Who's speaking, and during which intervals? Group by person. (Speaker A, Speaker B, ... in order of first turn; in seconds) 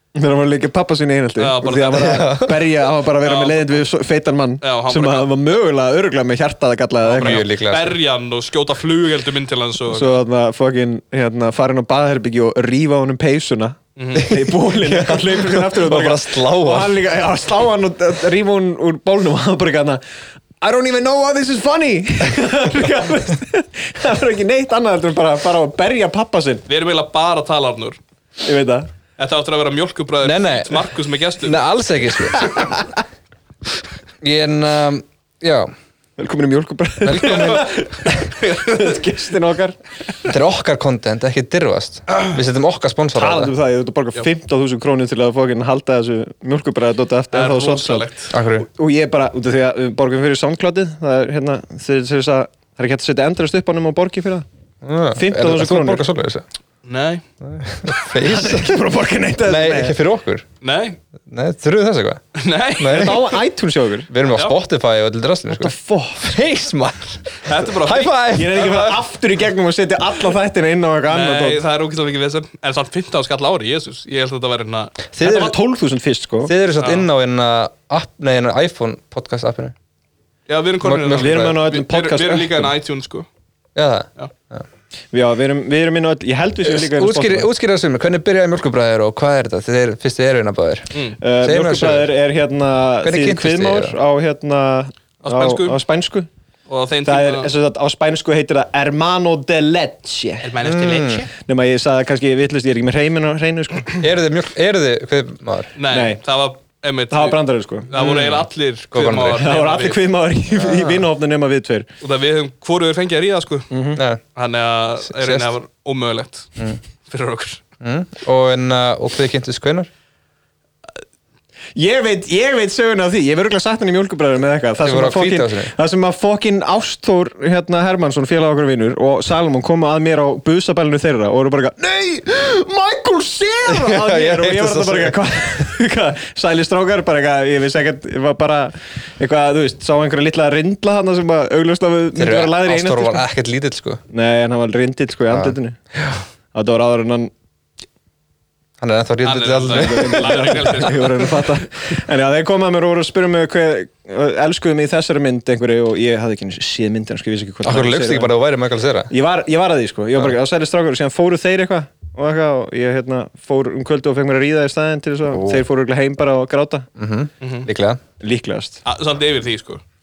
Speaker A: 0.1-7.4, 9.9-20.0, 20.6-26.6, 28.4-28.9, 36.2-39.8, 43.1-54.5, 55.1-56.0, 58.2-60.0, 62.9-64.1, 65.5-66.4, 68.3-71.6, 75.2-76.5, 80.9-82.7, 85.1-87.5, 91.2-96.3, 97.0-100.5, 101.3-104.1, 105.9-106.2, 107.1-107.9, 109.3-111.9, 113.7-114.0, 121.8-143.2, 144.1-145.8, 146.5-147.3, 149.7-158.3, 159.1-166.9, 168.2-168.8
Speaker B: 1.4-2.2, 3.2-3.7, 4.6-5.3, 7.0-10.2, 13.9-14.3, 26.7-28.0, 29.2-31.6, 38.4-38.9, 47.3-48.3, 56.8-57.2, 60.6-61.0, 62.3-63.2, 64.3-64.5, 67.4-68.9, 71.1-74.9, 76.8-77.0, 80.5-83.3, 90.9-91.2, 95.2-95.8, 96.7-97.5, 100.4-101.3, 105.7-107.4, 107.9-110.0, 112.0-113.7, 114.3-116.5, 117.0-117.6, 149.2-151.4, 167.4-167.7, 168.8-169.8
Speaker C: 1.9-2.6, 7.1-8.0, 14.2-16.9, 30.2-32.5, 34.2-35.7, 37.0-38.0, 40.2-43.5, 48.3-48.7, 54.8-56.4, 57.4-58.8, 59.4-60.4, 61.3-62.2, 62.8-63.3, 64.1-68.9, 75.1-75.5, 76.4-79.7, 80.8-81.6, 83.7-84.6, 86.6-92.1, 93.0-94.0, 100.6-101.3, 104.0-105.7, 108.0-109.5, 110.5-111.1, 114.0-114.2, 115.1-115.5, 117.8-119.9, 124.8-125.7, 133.7-135.2, 142.1-144.0, 145.3-146.2, 148.8-150.8, 157.6-159.1, 165.3-165.7, 167.0-168.0